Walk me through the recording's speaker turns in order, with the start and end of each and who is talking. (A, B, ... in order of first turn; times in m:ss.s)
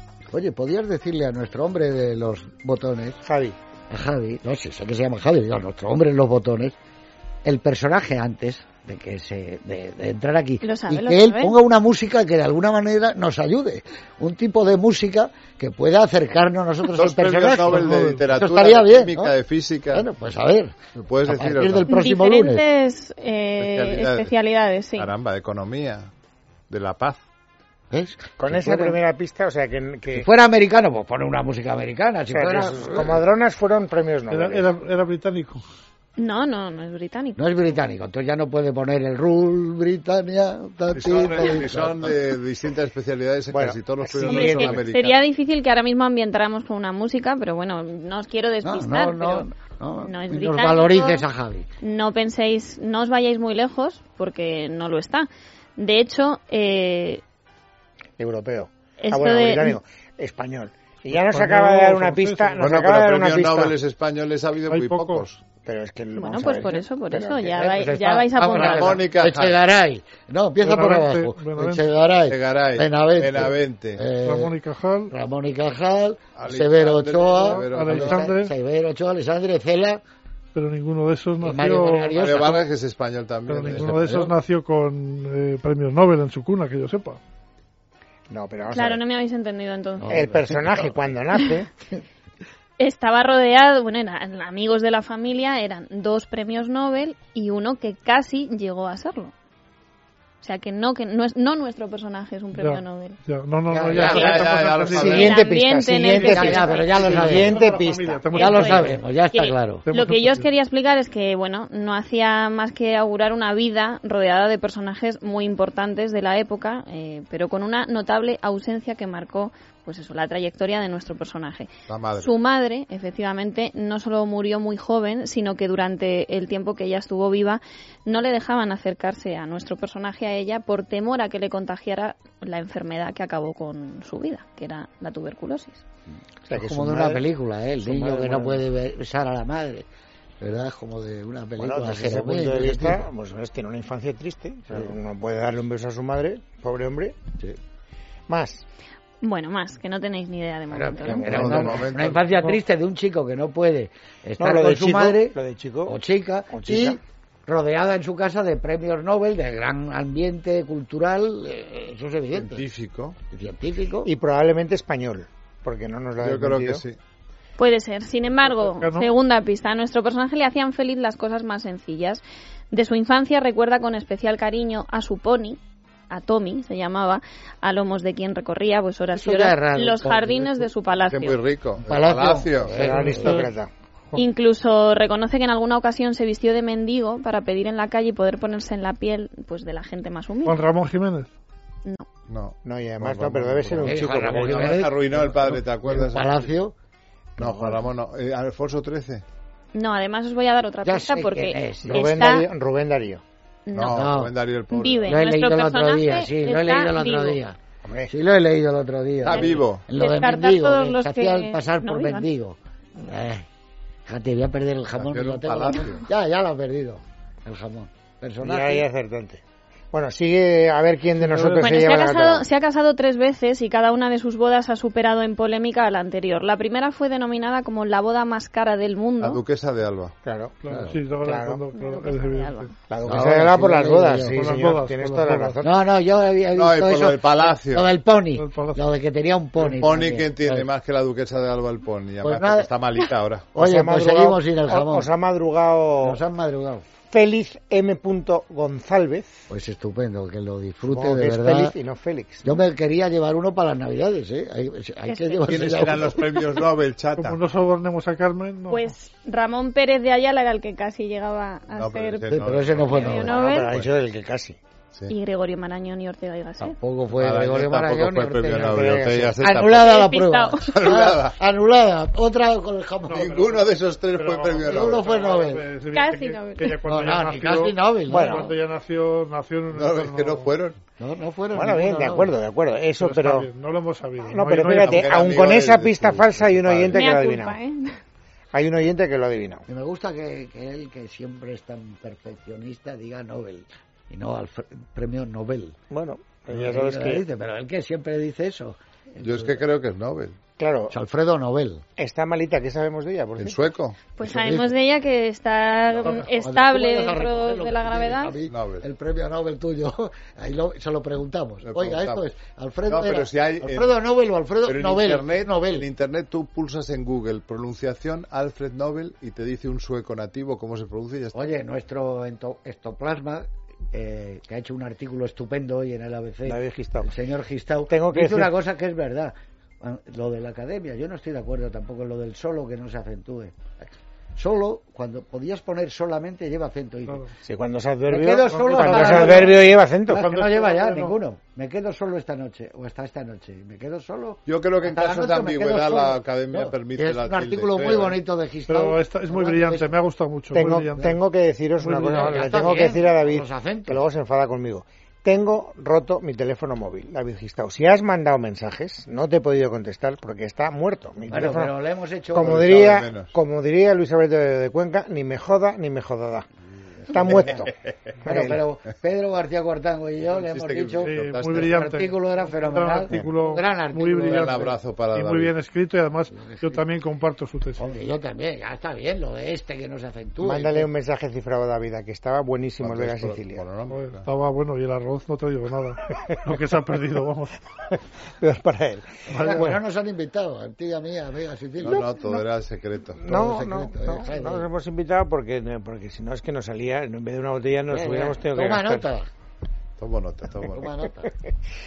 0:00.3-0:03.2 A
0:03.2-0:03.6 B
0:03.9-0:06.8 A
0:07.4-0:19.4 A
0:10.6-0:11.6 C
0:16.9-0:20.1 D
0:17.6-0:18.3 E
0:19.9-0:22.6 A
0:21.0-0:21.9 D
0:21.8-0:25.1 C
0:23.6-0:24.3 D
0:25.0-0:26.1 D
0:26.7-0:27.2 D
0:27.9-0:29.0 A
0:28.4-0:30.3 B
0:30.1-0:33.2 A
0:32.3-0:34.7 B
0:34.3-0:35.6 E
0:36.2-0:37.4 C
0:37.4-0:42.2 A
0:40.9-0:45.2 D
0:43.5-0:44.8 B
0:44.2-0:49.5 C
0:48.6-0:51.6 A
0:50.0-0:51.2 C
0:51.8-0:57.2 C
0:58.2-1:03.8 B
0:59.0-0:59.8 C
1:01.1-1:02.8 E
1:02.6-1:05.4 D
1:04.7-1:05.3 E
1:05.6-1:07.5 B
1:06.2-1:09.0 C
1:07.5-1:14.5 A
1:08.5-1:09.6 D
1:10.6-1:11.9 E
1:12.3-1:14.1 D
1:14.2-1:15.1 E
1:15.1-1:20.0 A
1:16.3-1:18.3 D
1:17.3-1:18.5 E
1:20.5-1:22.2 E
1:21.4-1:22.6 A
1:22.1-1:23.9 D
1:23.4-1:27.2 E
1:23.6-1:24.4 A
1:28.3-1:29.0 B
1:28.7-1:30.2 C
1:30.0-1:31.0 A
1:30.1-1:31.7 B
1:32.8-1:39.3 C
1:40.4-1:43.2 C
1:42.5-1:45.4 E
1:43.7-1:44.4 A
1:43.9-1:45.3 D
1:44.1-1:47.2 C
1:45.0-1:48.2 B
1:46.1-1:49.0 E
1:46.2-1:47.6 A
1:48.3-2:15.8 C
1:48.4-1:49.8 A
1:49.8-1:50.4 E
2:01.9-2:02.3 D
2:16.5-2:17.2 B
2:16.5-2:19.8 A
2:17.8-2:18.7 B
2:20.4-2:23.0 A
2:21.6-2:27.2 B
2:28.3-2:28.6 B
2:29.2-2:31.4 C
2:30.7-2:35.3 A
2:31.0-2:31.9 B
2:31.3-2:32.3 D
2:34.4-2:37.0 B
2:35.9-2:42.6 A
2:42.3-2:43.2 D
2:43.3-2:44.1 A
2:44.0-2:46.8 B
2:46.2-2:47.0 D
2:47.6-3:01.4 C
2:48.4-2:49.1 E
2:59.2-3:00.6 A
3:01.1-3:02.8 D
3:01.8-3:03.5 A
3:02.7-3:03.7 B
3:02.8-3:03.5 E
3:04.1-3:10.6 C
3:10.4-3:11.3 E
3:12.3-3:16.5 D
3:12.6-3:14.8 B
3:13.7-3:16.7 A
3:17.4-3:17.9 A
3:17.4-3:19.2 D
3:19.7-3:22.5 C
3:20.8-3:22.2 A
3:21.8-3:23.2 B
3:23.6-3:24.1 C
3:23.7-3:25.2 D
3:23.9-3:24.3 A
3:24.7-3:27.4 C
3:25.0-3:27.6 A
3:27.8-3:28.1 B
3:28.1-3:33.4 A
3:29.2-3:29.9 D
3:29.2-3:32.3 C
3:34.0-3:38.9 A
3:34.9-3:36.1 D
3:38.4-3:42.4 B
3:41.2-3:41.7 E
3:41.6-3:49.4 C
3:49.2-3:50.1 D
3:50.2-3:50.6 B
3:50.6-3:52.7 E
3:50.7-3:51.0 A
3:51.2-3:51.6 B
3:51.7-3:52.7 C
3:52.9-3:55.7 B
3:53.0-3:54.5 A
3:54.3-3:55.6 E
3:55.6-4:00.7 A
3:56.5-3:57.9 D
3:58.3-3:58.8 E
3:59.8-4:03.5 D
4:02.2-4:02.7 A
4:03.5-4:05.1 A
4:03.6-4:06.2 B
4:06.0-4:06.8 A
4:07.1-4:09.5 B
4:09.5-4:11.7 A
4:10.9-4:12.5 B
4:12.4-4:16.4 A
4:15.1-4:16.2 C
4:15.4-4:17.4 D
4:17.2-4:18.9 E
4:18.7-4:23.7 C
4:21.7-4:23.9 D
4:22.3-4:23.4 A
4:23.3-4:24.6 B
4:25.1-4:26.8 C
4:26.6-4:33.3 A
4:27.1-4:29.9 D
4:28.6-4:29.4 B
4:29.7-4:30.7 C
4:30.6-4:31.4 D
4:33.1-4:40.5 E
4:33.1-4:35.1 D
4:34.6-4:35.6 A
4:35.9-4:36.8 C
4:36.9-4:38.4 A
4:38.1-4:38.6 B
4:39.7-4:40.8 D
4:41.0-4:42.4 A
4:41.5-4:43.5 B
4:43.0-4:45.0 E
4:44.2-4:47.6 B
4:44.7-4:47.0 D
4:46.9-4:48.0 C
4:48.5-4:49.6 B
4:49.7-4:55.8 A
4:55.9-4:57.2 B
4:56.5-4:59.7 A
4:59.2-5:00.4 D
5:00.6-5:00.9 B
5:00.9-5:01.8 A
5:02.0-5:03.7 B
5:03.4-5:04.1 D
5:04.2-5:08.4 C
5:04.2-5:04.7 A
5:06.0-5:15.9 A
5:08.4-5:08.9 D
5:11.6-5:12.3 D
5:12.8-5:14.0 D
5:14.6-5:21.4 D
5:21.3-5:37.3 A
5:26.4-5:27.1 B
5:27.9-5:28.5 B
5:37.0-5:37.3 E
5:37.4-5:40.3 B
5:38.1-5:50.0 A
5:38.5-5:41.2 E
5:44.5-5:48.2 D
5:48.6-5:51.2 E
5:50.5-6:01.7 B
5:50.5-5:51.1 A
5:51.8-5:52.6 E
5:52.0-5:54.0 A
6:01.3-6:03.0 A
6:02.3-6:06.4 B
6:02.4-6:03.3 D
6:07.1-6:08.6 B
6:08.3-6:14.8 A
6:10.2-6:11.8 D
6:11.0-6:17.8 E
6:14.2-6:15.5 D
6:16.3-6:16.8 A
6:17.8-6:20.9 A
6:20.4-6:23.6 B
6:22.8-6:24.2 D
6:23.9-6:27.6 E
6:27.9-6:29.8 B
6:29.3-6:29.8 E
6:29.3-6:32.0 A
6:31.8-6:33.2 D
6:31.8-6:32.4 B
6:33.1-6:39.1 B
6:33.2-6:34.7 A
6:37.9-6:39.3 A
6:40.0-6:40.9 D
6:40.6-6:41.3 A